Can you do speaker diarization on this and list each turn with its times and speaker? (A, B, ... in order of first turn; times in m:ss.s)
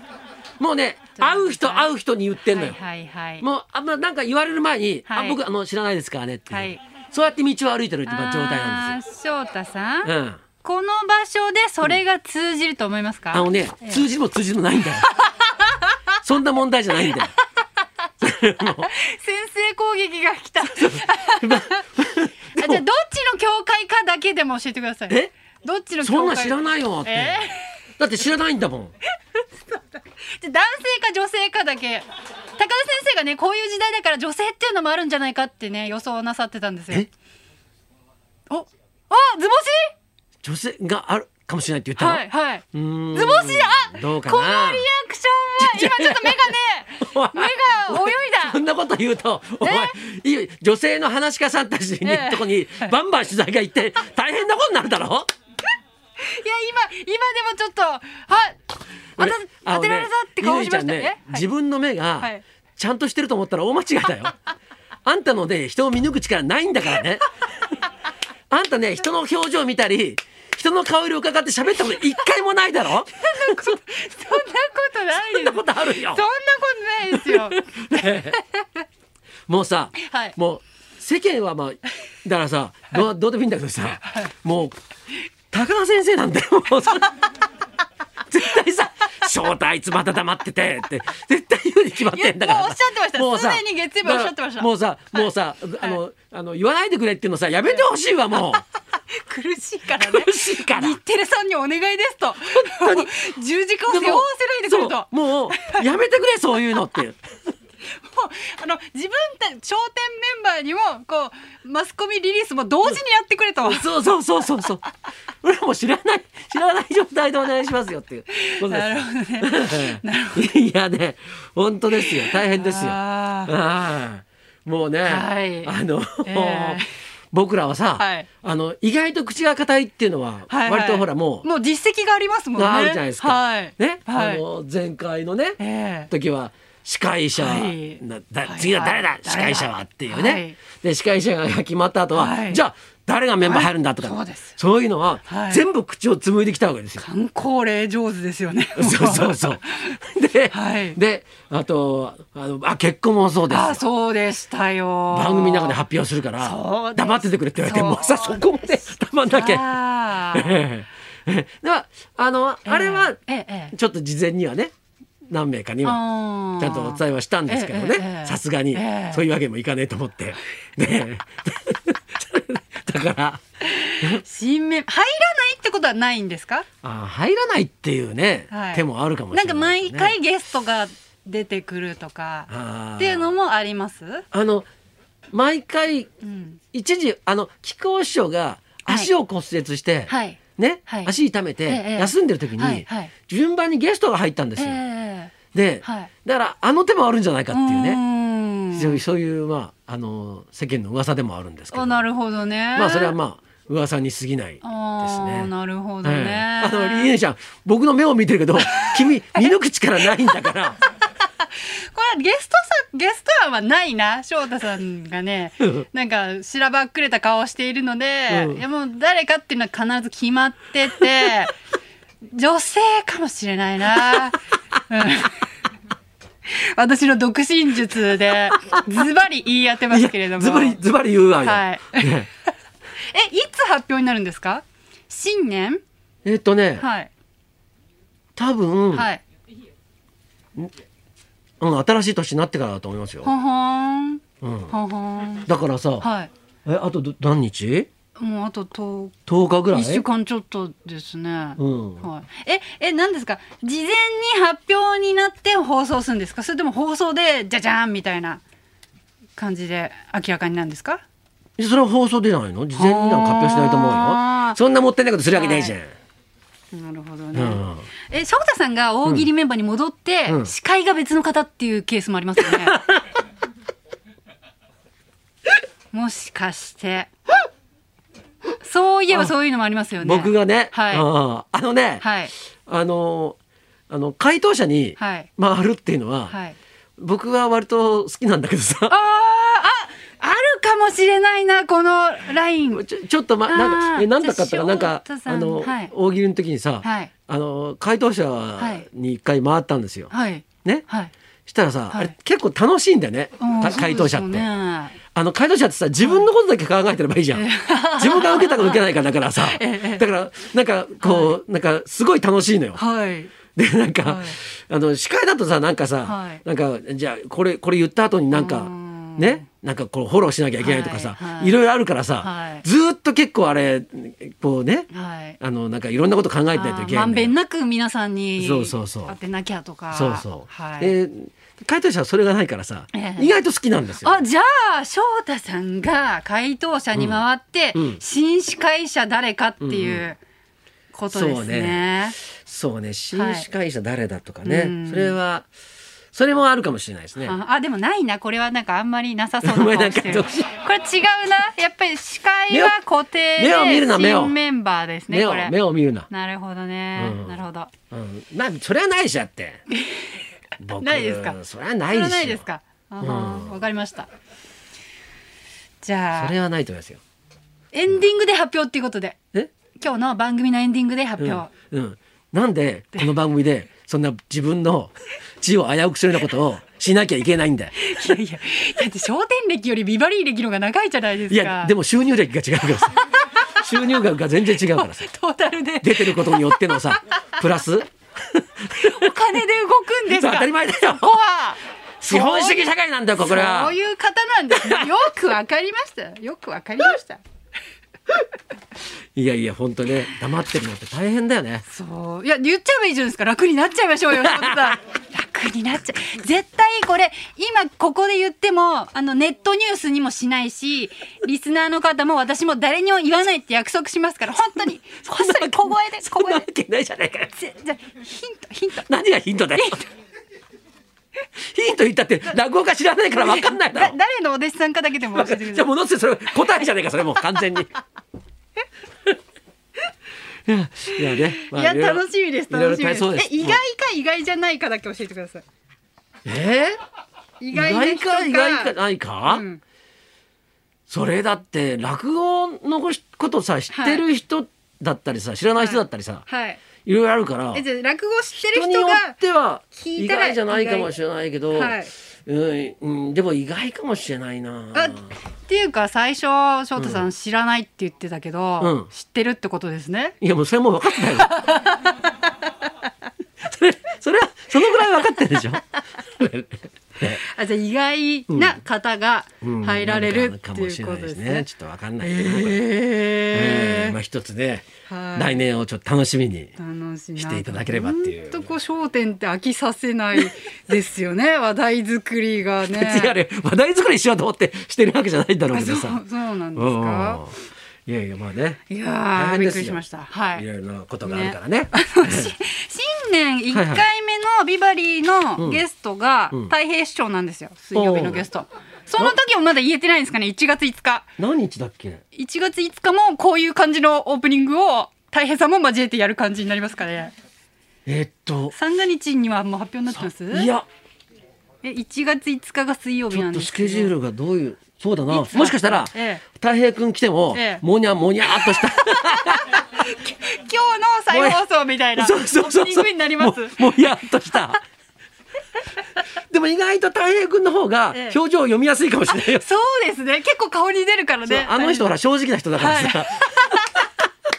0:00.6-0:02.8 A
0:01.2-0:01.9 B
0:02.5-0:03.4 B
0:03.4-0:09.0 A
0:05.1-0:05.4 B
0:06.5-0:06.8 B
0:08.1-0:10.1 B
0:10.0-0:10.4 A
0:10.6-0:14.0 B
0:13.3-0:15.1 A
0:15.0-0:15.7 B
0:16.2-0:17.3 A
0:18.2-0:18.9 A
0:18.8-0:21.9 B
0:20.8-0:22.8 A
0:22.6-0:27.7 B
0:26.0-0:28.9 A
0:30.3-0:37.1 B
0:38.5-0:39.9 B
0:40.4-0:44.8 A
0:42.0-0:48.6 B
0:45.6-0:55.3 A
0:49.6-0:49.9 B
0:52.0-0:52.9 B
0:56.2-0:58.6 B
0:59.2-1:01.5 B
0:59.2-1:04.4 A
1:05.0-1:07.3 A
1:08.5-1:13.8 A
1:13.2-1:17.6 B
1:15.1-1:16.2 A
1:17.1-1:18.4 A
1:19.5-1:24.8 A
1:20.0-1:20.3 B
1:25.5-1:27.3 A
1:28.3-1:38.6 A
1:32.1-1:35.3 B
1:39.2-1:45.9 B
1:40.0-1:41.0 A
1:42.5-1:43.1 A
1:43.9-1:47.2 A
1:48.0-1:53.9 B
1:53.6-1:54.8 A
1:55.4-2:11.5 A
1:58.3-2:00.5 B
2:02.0-2:03.5 B
2:05.1-2:06.9 B
2:08.0-2:08.3 B
2:10.5-2:14.4 B
2:12.6-2:15.6 A
2:15.6-2:16.1 B
2:16.1-2:27.0 A
2:17.4-2:20.6 B
2:22.1-2:22.6 B
2:23.4-2:24.6 B
2:25.3-2:25.6 B
2:27.0-2:29.9 B
2:28.8-2:33.8 A
2:30.5-2:31.0 B
2:33.5-2:35.8 B
2:35.1-2:39.7 A
2:36.4-2:38.6 B
2:39.3-2:40.6 B
2:40.3-2:43.2 A
2:42.7-2:43.8 B
2:43.7-2:44.7 A
2:45.3-2:46.0 A
2:45.8-2:49.2 B
2:46.6-2:53.4 A
2:53.6-2:56.7 B
2:56.8-3:00.2 A
2:58.5-3:04.2 B
3:02.5-3:03.4 A
3:04.3-3:04.7 A
3:05.3-3:06.1 A
3:06.2-3:06.6 B
3:06.7-3:14.8 A
3:08.9-3:09.1 B
3:10.1-3:11.1 B
3:11.7-3:13.1 B
3:14.6-3:16.1 B
3:15.5-3:18.0 A
3:17.5-3:19.0 B
3:18.7-3:22.0 A
3:21.7-3:23.2 B
3:22.7-3:25.5 A
3:24.6-3:27.1 B
3:26.0-3:30.8 A
3:28.6-3:29.5 B
3:31.4-3:41.6 B
3:35.6-3:35.9 A
3:38.3-3:38.6 A
3:42.3-3:44.4 B
3:44.9-3:45.4 B
3:46.5-3:50.8 B
3:49.9-3:52.3 A
3:51.4-3:52.2 B
3:53.0-3:55.8 B
3:56.2-3:56.9 A
3:56.8-3:57.1 B
3:58.4-3:59.1 A
3:58.9-3:59.2 B
4:01.6-4:03.3 A
4:03.2-4:05.5 B
4:04.4-4:04.7 A
4:05.5-4:06.1 A
4:06.0-4:06.3 B
4:06.6-4:07.9 A
4:08.2-4:09.2 B
4:09.3-4:10.1 A
4:09.7-4:18.4 B
4:11.6-4:12.1 A
4:19.4-4:21.0 B
4:21.6-4:25.9 A
4:22.8-4:24.6 B
4:25.3-4:25.8 B
4:26.7-4:32.8 B
4:27.3-4:27.9 A
4:30.3-4:30.5 A
4:32.6-4:33.0 A
4:35.9-4:37.1 B
4:38.6-4:41.1 B
4:40.0-4:42.1 A
4:42.0-4:42.3 B
4:42.7-4:43.4 A
4:43.9-4:46.4 A
4:45.0-4:45.3 B
4:46.3-4:46.6 B
4:47.0-4:49.0 A
4:48.9-4:52.8 B
4:52.7-5:00.1 A
4:53.5-4:55.9 B
4:56.8-4:57.1 B
4:58.6-4:58.8 B
5:00.1-5:01.1 B
5:01.5-5:04.5 A
5:03.4-5:05.0 B
5:05.1-5:07.5 A
5:06.0-5:06.3 B
5:07.3-5:08.8 B
5:08.0-5:12.8 A
5:09.4-5:10.1 B
5:11.0-5:11.3 B
5:12.8-5:13.3 B
5:13.5-5:24.9 A
5:14.0-5:14.4 B
5:16.0-5:16.4 B
5:18.3-5:19.4 B
5:20.6-5:21.6 B
5:22.2-5:22.6 B
5:24.9-5:25.4 B
5:25.4-5:27.4 A
5:26.5-5:30.9 B
5:28.4-5:29.2 A
5:29.9-5:34.2 A
5:32.9-5:33.3 B
5:34.0-5:40.2 B
5:37.0-5:37.2 A
5:37.7-5:38.0 A
5:39.6-5:40.1 A
5:40.9-5:42.2 B
5:41.1-5:45.5 A
5:43.1-5:43.5 B
5:44.4-5:45.2 B
5:46.1-5:47.4 A
5:47.2-5:55.6 B
5:49.4-5:50.5 A
5:52.5-5:52.8 A
5:53.4-5:54.4 A
5:55.1-5:56.1 A
5:56.1-5:57.7 B
5:57.0-5:59.6 A
5:59.7-6:00.1 B
6:00.6-6:02.4 A
6:00.8-6:01.4 B
6:01.9-6:04.1 B
6:03.0-6:03.6 A
6:05.8-6:06.4 B
6:06.2-6:07.0 A
6:07.7-6:09.2 B
6:09.8-6:11.5 B
6:11.2-6:17.8 A
6:17.8-6:21.8 B
6:21.3-6:25.1 A
6:24.8-6:27.0 B
6:25.8-6:29.0 A
6:28.8-6:37.2 B
6:30.1-6:31.2 A
6:32.0-6:33.8 A
6:34.6-6:34.9 A
6:39.2-6:41.7 A
6:41.7-6:56.5 B
6:44.1-6:44.8 A
6:55.1-6:57.3 A
6:57.4-6:58.9 B
6:58.9-6:59.8 A
6:59.5-6:59.9 B
7:01.4-7:04.0 A
7:03.2-7:05.7 B
7:05.1-7:07.8 A
7:10.5-7:13.6 A
7:10.9-7:15.4 B
7:16.3-7:16.8 A
7:17.4-7:18.7 B
7:17.5-7:19.4 A
7:19.3-7:19.6 B
7:20.9-7:26.2 A
7:23.7-7:24.0 B
7:25.6-7:26.6 B
7:26.8-7:27.6 A
7:27.5-7:29.2 B
7:28.3-7:35.1 A
7:29.8-7:30.9 B
7:31.5-7:31.9 B
7:34.7-7:40.2 B
7:36.8-7:37.1 A
7:38.6-7:38.9 A
7:40.2-7:41.3 A
7:40.9-7:42.5 B
7:43.4-7:45.6 A
7:46.2-7:47.2 A
7:47.2-7:51.5 B
7:48.3-7:48.6 A
7:49.4-7:52.6 A
7:52.0-7:54.0 B
7:53.3-7:56.6 A
7:54.9-7:55.4 B
7:56.6-8:03.2 B
7:57.2-7:58.5 A
8:02.7-8:06.0 A
8:05.5-8:07.2 B
8:06.6-8:08.6 A
8:08.7-8:10.5 B
8:09.1-8:09.8 A
8:10.3-8:12.3 A
8:11.0-8:21.1 B
8:13.5-8:13.8 A
8:17.7-8:18.3 A
8:21.2-8:22.0 A
8:22.2-8:27.1 B
8:27.9-8:28.6 A
8:28.5-8:30.5 B
8:29.9-8:30.7 A
8:31.6-8:33.9 B
8:33.1-8:39.6 A
8:35.1-8:36.2 B
8:37.3-8:37.6 B
8:38.3-8:44.5 B
8:41.1-8:41.4 A
8:42.0-8:44.6 A
8:46.3-8:49.4 A
8:47.9-8:48.2 B
8:49.1-8:51.9 B
8:51.3-8:53.6 A
8:52.6-8:53.9 B